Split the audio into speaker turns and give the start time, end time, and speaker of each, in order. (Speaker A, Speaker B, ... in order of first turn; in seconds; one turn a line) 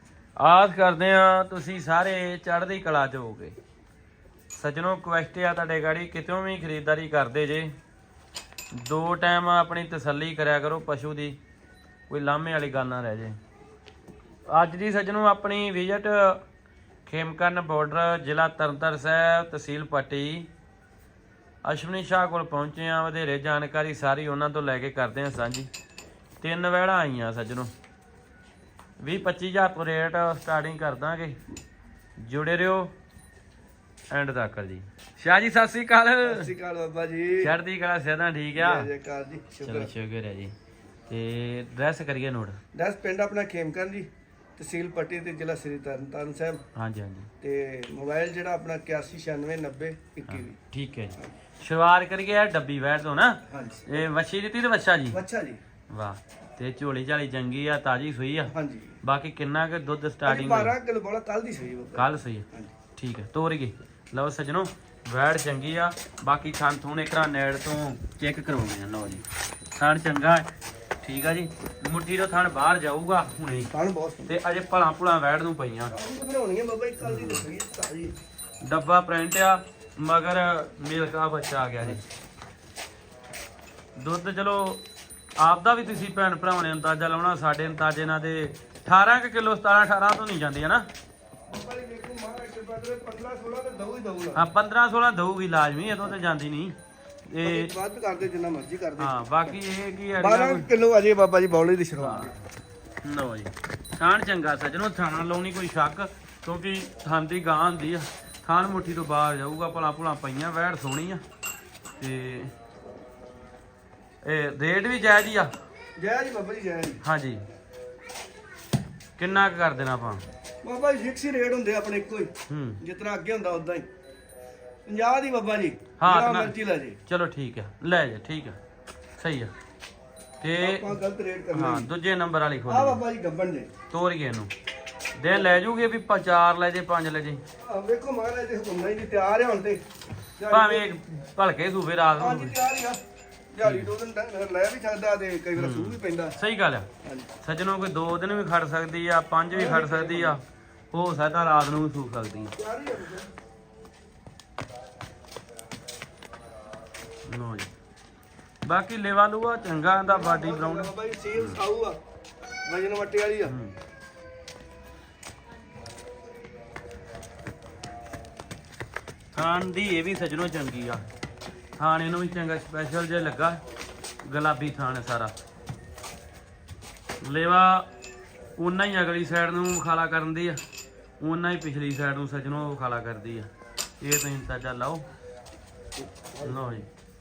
Speaker A: 0.4-3.5
Speaker A: 4.5-7.7
Speaker A: 8.7-11.4
Speaker A: 12.1-13.4
Speaker A: 14.5-16.4
Speaker A: 17.1-20.5
Speaker A: 21.6-25.7
Speaker A: 26.4-27.7
Speaker A: 29.0-31.4
Speaker A: 32.2-32.9
Speaker A: 34.1-36.5
Speaker B: 36.2-37.5
Speaker A: 37.4-38.9
Speaker B: 38.6-39.9
Speaker A: 39.6-40.5
Speaker A: 41.1-42.6
Speaker B: 42.7-46.6
Speaker A: 46.7-47.3
Speaker B: 47.4-50.6
Speaker A: 50.3-55.2
Speaker B: 53.5-53.9
Speaker B: 55.1-55.6
Speaker A: 55.9-58.5
Speaker B: 58.5-58.9
Speaker A: 59.0-60.7
Speaker B: 60.2-62.7
Speaker A: 61.9-70.5
Speaker A: 71.0-73.7
Speaker B: 73.7-74.3
Speaker A: 74.3-75.9
Speaker B: 75.9-78.1
Speaker A: 77.0-77.5
Speaker A: 78.6-82.0
Speaker A: 84.0-84.8
Speaker A: 85.4-90.9
Speaker B: 91.5-94.4
Speaker A: 94.3-97.7
Speaker B: 97.4-99.1
Speaker A: 99.0-100.7
Speaker B: 100.2-102.3
Speaker A: 102.0-102.4
Speaker A: 103.0-111.2
Speaker A: 112.0-112.5
Speaker A: 114.2-115.5
Speaker B: 116.0-117.0
Speaker A: 117.0-117.4
Speaker A: 119.2-120.2
Speaker B: 120.6-123.9
Speaker A: 122.5-122.8
Speaker B: 124.9-127.0
Speaker A: 126.0-126.5
Speaker A: 127.1-128.6
Speaker A: 129.2-129.5
Speaker A: 130.4-130.9
Speaker B: 130.6-131.9
Speaker A: 131.5-133.0
Speaker B: 132.7-133.7
Speaker A: 133.9-134.5
Speaker A: 135.2-137.4
Speaker B: 135.3-135.6
Speaker B: 137.6-139.8
Speaker B: 140.4-140.9
Speaker A: 140.5-142.5
Speaker B: 142.2-143.0
Speaker B: 143.5-146.3
Speaker A: 143.6-143.9
Speaker A: 145.6-146.9
Speaker B: 147.0-147.3
Speaker A: 147.4-152.5
Speaker B: 149.5-150.4
Speaker B: 152.6-153.3
Speaker A: 157.3-157.7
Speaker A: 158.7-161.6
Speaker B: 160.0-162.0
Speaker B: 162.7-163.5
Speaker A: 163.5-163.8
Speaker A: 169.3-171.0
Speaker A: 171.8-173.6
Speaker A: 174.2-175.3
Speaker A: 177.2-177.9
Speaker A: 178.6-180.6
Speaker A: 181.2-183.5
Speaker A: 184.0-185.0
Speaker B: 186.0-186.6
Speaker A: 186.4-186.9